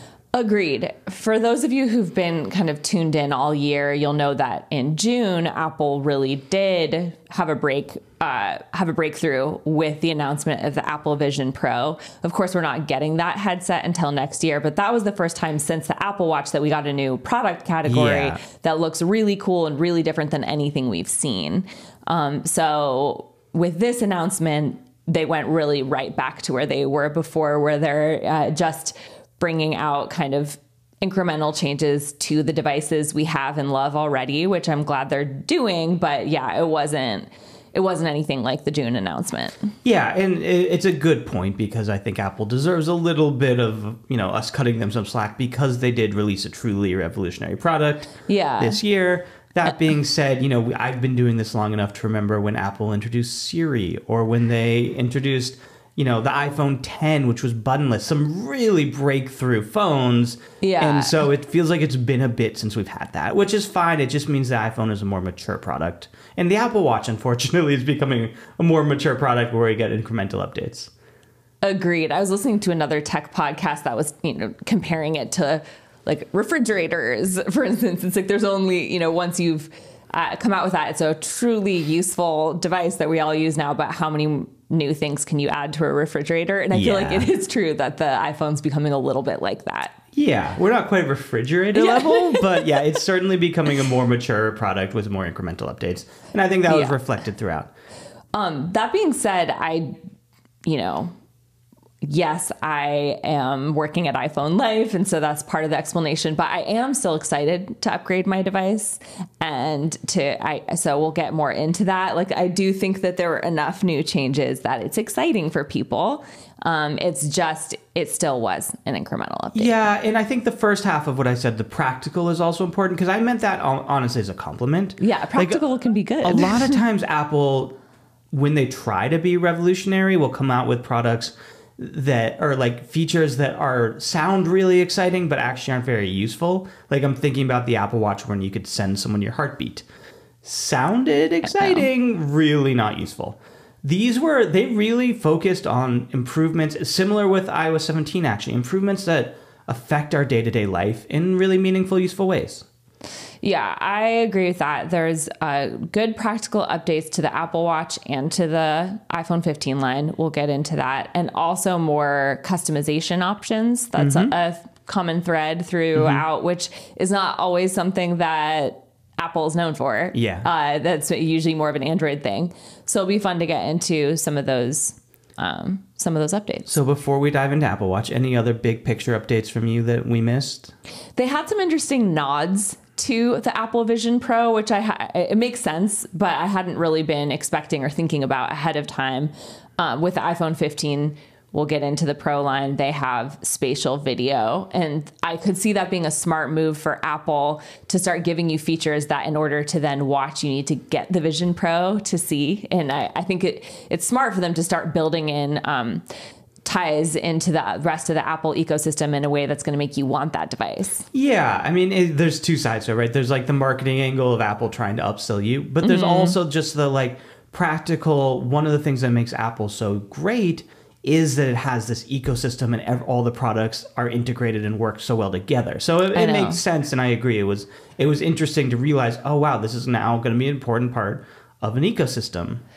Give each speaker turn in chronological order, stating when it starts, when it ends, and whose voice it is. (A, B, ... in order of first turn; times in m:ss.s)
0:00.3-0:39.7 A
0:17.8-0:18.4 B
0:39.8-1:10.9 B
0:48.3-0:48.8 A
1:00.6-1:01.2 A
1:11.6-1:30.0 A
1:26.7-1:27.3 B
1:30.1-1:37.7 B
1:31.7-1:32.7 A
1:36.7-1:37.0 A
1:38.3-1:40.0 A
1:40.6-1:41.1 A
1:42.0-1:59.8 A
1:59.5-2:05.6 B
2:05.0-2:06.8 A
2:06.2-2:07.7 B
2:08.3-2:19.8 B
2:20.4-2:32.6 B
2:21.4-2:21.9 A
2:33.4-2:56.8 A
2:44.0-2:44.3 B
2:45.9-2:46.2 B
2:50.1-2:50.5 B
2:56.7-3:00.7 B
3:01.2-3:26.0 A
3:26.6-3:31.1 A
3:31.1-3:52.6 B
3:35.8-3:36.4 A
3:46.1-3:46.6 A